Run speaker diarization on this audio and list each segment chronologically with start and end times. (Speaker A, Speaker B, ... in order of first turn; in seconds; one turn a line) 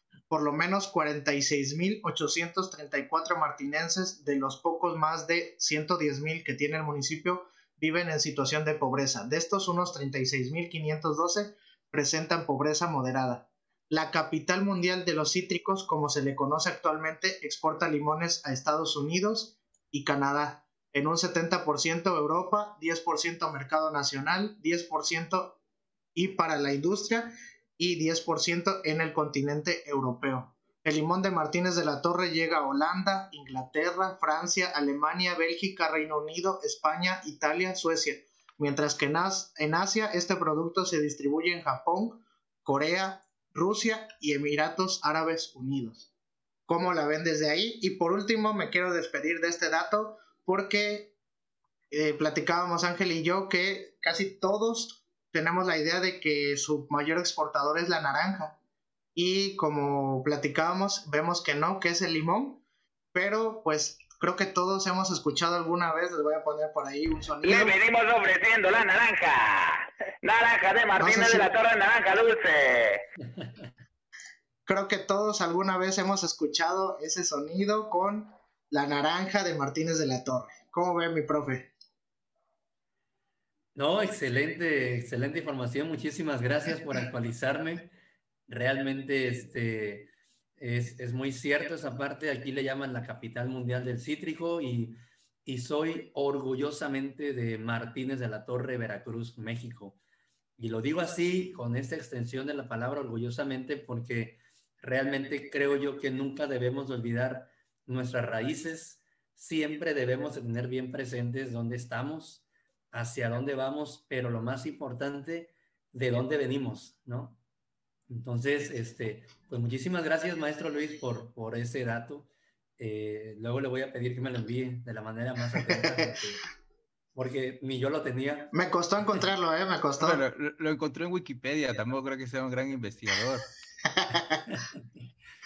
Speaker A: 0.3-25.6
Speaker A: 26.1-46.1
Speaker A: 46.7-51.1
Speaker A: 51.9-58.5
Speaker A: 59.1-62.6
Speaker A: 63.1-67.8
Speaker B: 67.4-73.0
Speaker A: 71.0-71.5
Speaker A: 74.7-81.7
Speaker C: 83.8-87.9
Speaker C: 88.5-100.0
Speaker C: 100.6-117.4
Speaker C: 118.1-126.4
Speaker C: 127.1-128.5
Speaker A: 128.5-130.2
Speaker D: 130.0-133.5
Speaker A: 133.9-134.4